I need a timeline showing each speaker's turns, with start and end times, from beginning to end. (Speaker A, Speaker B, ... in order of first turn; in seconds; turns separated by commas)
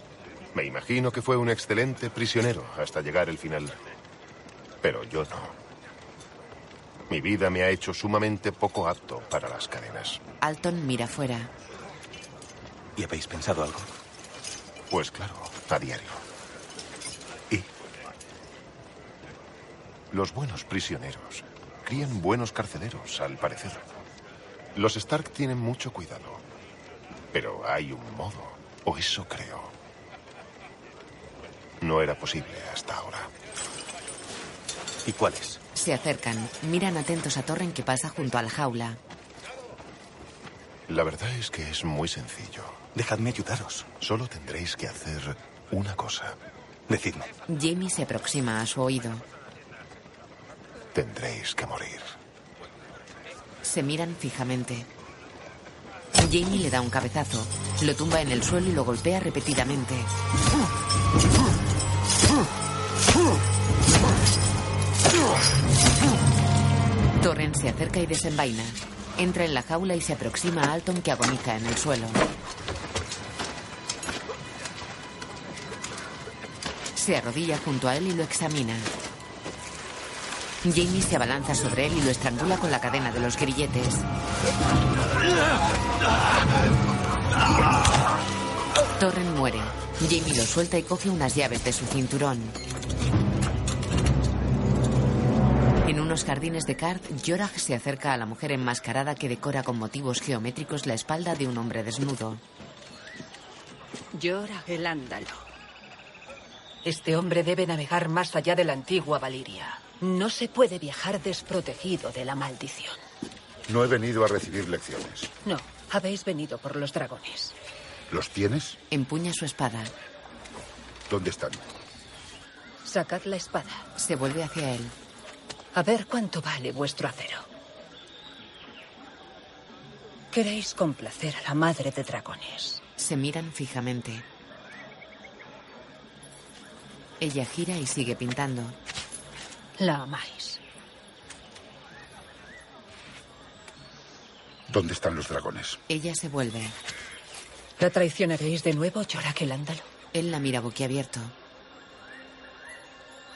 Speaker A: 0.5-3.8, Speaker A: 4.8-5.5, Speaker A: 7.1-10.2, Speaker B: 10.4-11.5, Speaker C: 13.0-13.9, Speaker A: 14.9-16.2, Speaker A: 20.1-23.8, Speaker A: 24.8-26.4, Speaker A: 27.3-29.7, Speaker A: 31.8-33.3, Speaker C: 35.0-35.6, Speaker B: 35.7-39.0, Speaker A: 40.9-42.8, Speaker C: 42.9-43.9, Speaker A: 44.0-46.4, Speaker C: 46.9-47.3, Speaker B: 47.5-49.2, Speaker A: 50.9-52.1, Speaker B: 53.6-54.9, Speaker B: 56.2-60.1, Speaker B: 67.2-72.2, Speaker B: 77.0-78.9, Speaker B: 80.6-84.0, Speaker B: 89.0-92.5, Speaker B: 95.8-102.4, Speaker D: 104.3-105.1, Speaker D: 106.9-113.0, Speaker E: 113.7-115.3, Speaker D: 115.5-117.5, Speaker E: 118.1-118.7, Speaker B: 118.9-119.9, Speaker E: 121.1-121.6, Speaker D: 122.8-123.8, Speaker B: 124.0-124.9, Speaker D: 125.8-127.4, Speaker D: 130.3-132.8, Speaker B: 133.0-134.2, Speaker B: 137.2-138.8, Speaker D: 139.8-140.6, Speaker E: 144.7-145.8, Speaker B: 145.9-146.7, Speaker D: 147.8-149.8, Speaker B: 150.1-151.3